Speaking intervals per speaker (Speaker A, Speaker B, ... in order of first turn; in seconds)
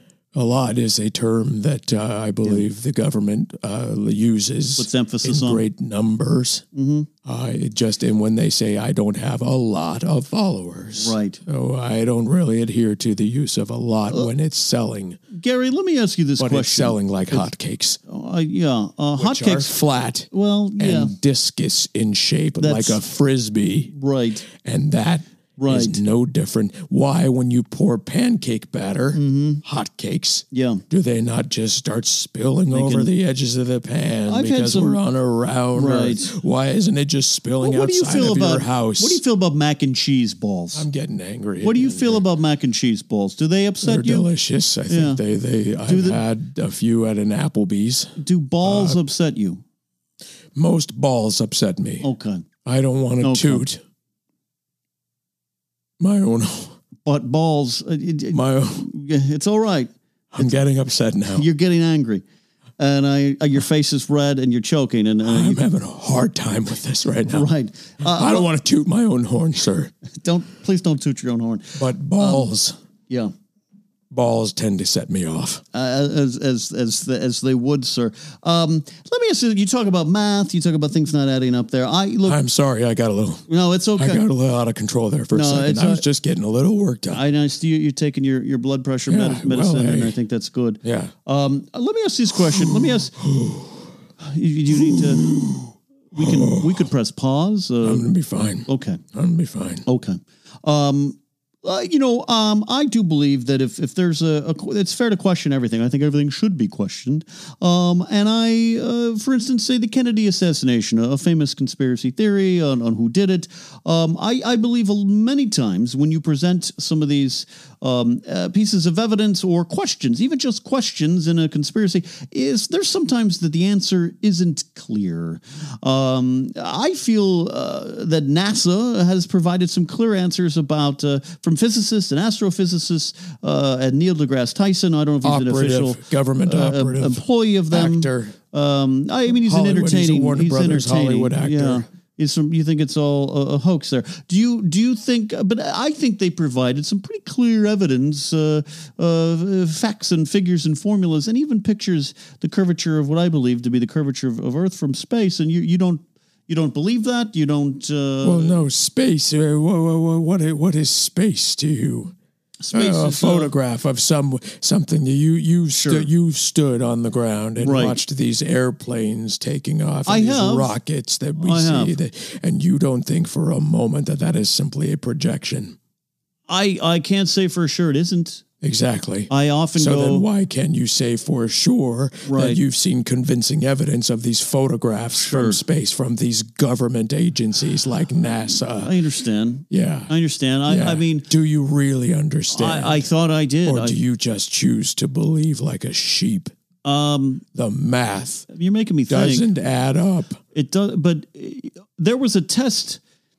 Speaker A: 0.3-6.6, 7.2-15.2, 16.4-18.0, 19.2-23.9, 24.5-39.2, 40.7-42.2, 43.8-49.0, 50.5-52.1, 52.6-53.8, 56.0-56.8, 58.3-58.9, 60.3-61.5, 65.2-67.5, 68.0-69.9, 71.8-72.8, 74.1-75.6, 82.2-87.2, 89.1-90.2, 90.8-91.1, 92.6-93.9, 94.7-96.9, 97.8-99.8, 135.2-138.4, 139.3-141.9, 158.2-162.2, 162.7-175.8, 178.6-189.0, 189.7-190.1, 190.7-193.1, 193.6-196.5, 197.5-198.5, 199.1-200.4
Speaker B: 4.8-5.7, 6.7-7.1, 11.0-11.4, 15.3-17.5, 18.1-19.8, 20.3-21.1, 22.6-23.0, 23.9-24.5, 25.6-26.0, 29.1-29.6, 30.5-30.8, 32.7-33.1, 34.3-35.0, 35.7-36.3, 37.6-40.9, 41.6-44.3, 44.9-45.2, 45.9-46.2, 48.2-49.6, 52.0-52.5, 53.2-53.7, 57.0-60.5, 61.3-62.2, 62.8-65.6, 67.3-68.5, 70.2-72.5, 75.7-82.4, 83.5-84.2, 85.3-86.0, 87.1-93.2, 94.2-95.3, 96.1-98.1, 98.7-99.0, 99.9-158.6, 162.6-163.5, 165.7-166.1, 167.6-168.0, 170.1-170.8, 171.4-172.0, 176.5-178.4, 179.3-180.3, 182.2-182.6, 185.1-185.6, 188.8-191.3, 192.5-194.0, 196.8-197.4, 198.5-199.5, 200.5-203.0